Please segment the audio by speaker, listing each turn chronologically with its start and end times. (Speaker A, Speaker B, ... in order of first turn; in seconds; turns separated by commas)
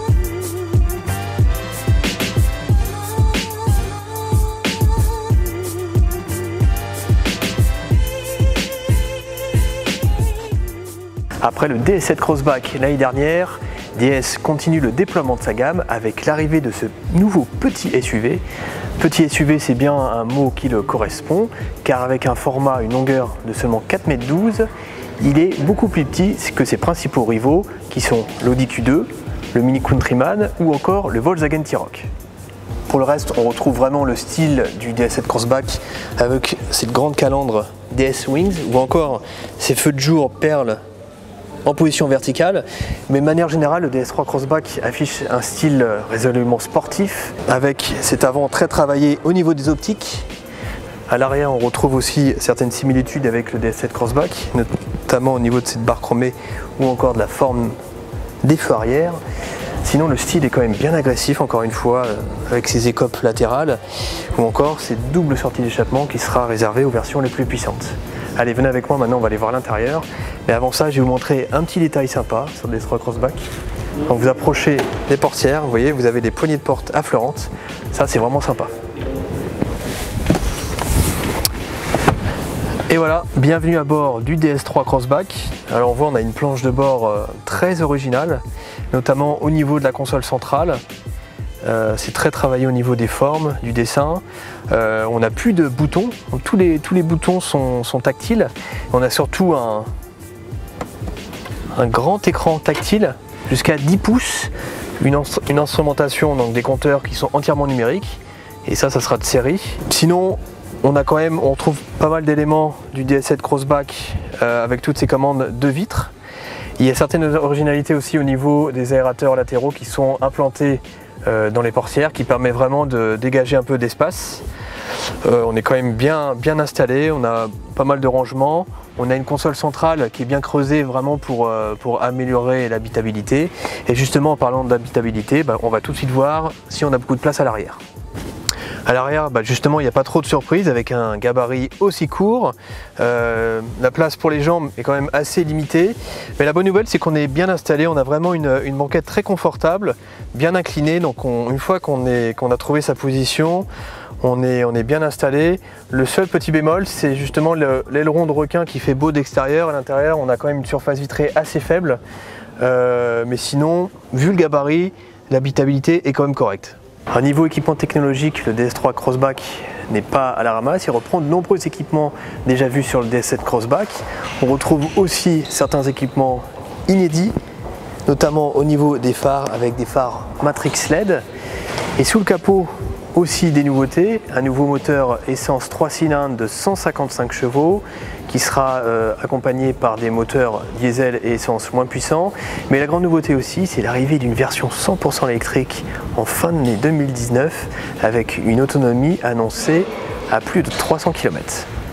Speaker A: 11.4-18.4, Speaker A: 19.0-24.7, Speaker A: 25.2-32.1, Speaker A: 32.9-40.8, Speaker A: 41.6-50.3, Speaker A: 51.1-57.7, Speaker A: 58.4-59.2, Speaker A: 59.8-63.8, Speaker A: 64.3-73.4, Speaker A: 74.0-78.7, Speaker A: 82.9-90.8, Speaker A: 91.6-99.9, Speaker A: 101.7-116.1, Speaker A: 116.8-124.4, Speaker A: 125.2-137.8, Speaker A: 138.8-153.7, Speaker A: 154.2-162.0, Speaker A: 162.6-177.3, Speaker A: 178.1-181.2, Speaker A: 182.0-201.7